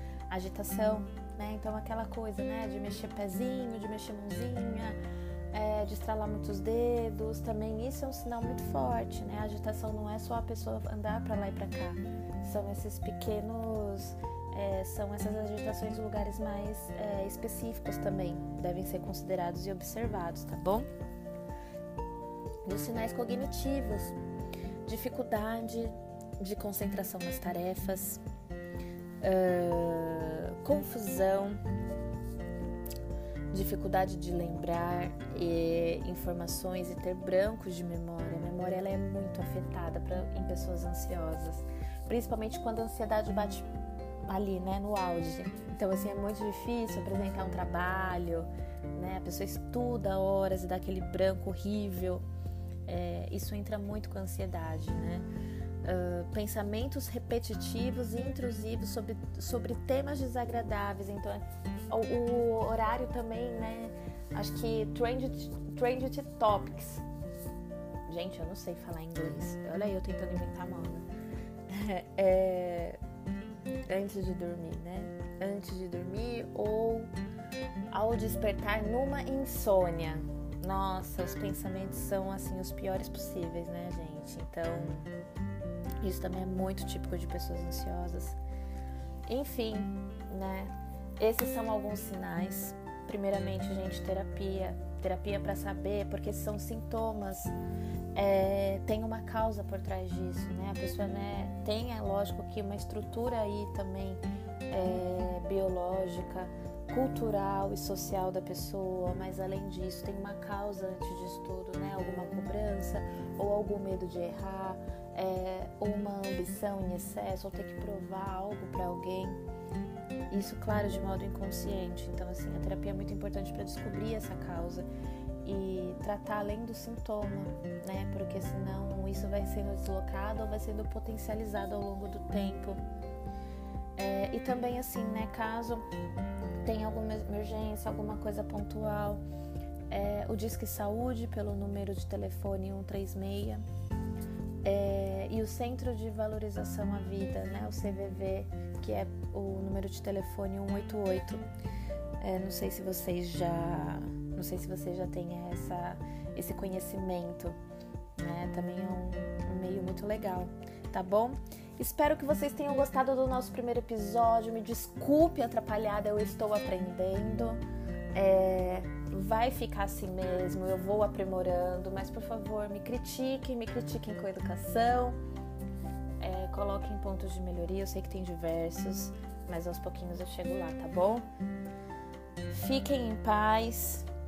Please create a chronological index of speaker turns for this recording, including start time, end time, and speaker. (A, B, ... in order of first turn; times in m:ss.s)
0:00.3-0:05.0 A
0:05.5-0:20.9 A
0:22.6-0:24.1 A
0:24.8-0:28.2 A
0:29.2-0:31.6 A
0:33.5-0:43.7 A
0:44.3-0:52.2 A
0:52.8-0:55.2 A
0:55.8-1:07.0 A
1:08.1-1:11.0 A
1:11.7-1:13.0 A
1:13.9-1:17.1 A
1:17.9-1:25.1 A
1:26.0-1:28.4 A
1:29.3-1:37.5 A
1:38.1-1:59.4 A
2:00.3-2:04.8 A
2:05.4-2:12.8 A
2:14.0-2:15.8 A
2:16.6-2:19.2 A
2:19.9-2:23.6 A
2:24.6-2:31.4 A
2:32.2-2:37.6 A
2:38.2-2:47.6 A
2:48.1-2:55.2 A
2:56.2-3:01.3 A
3:02.5-3:04.0 A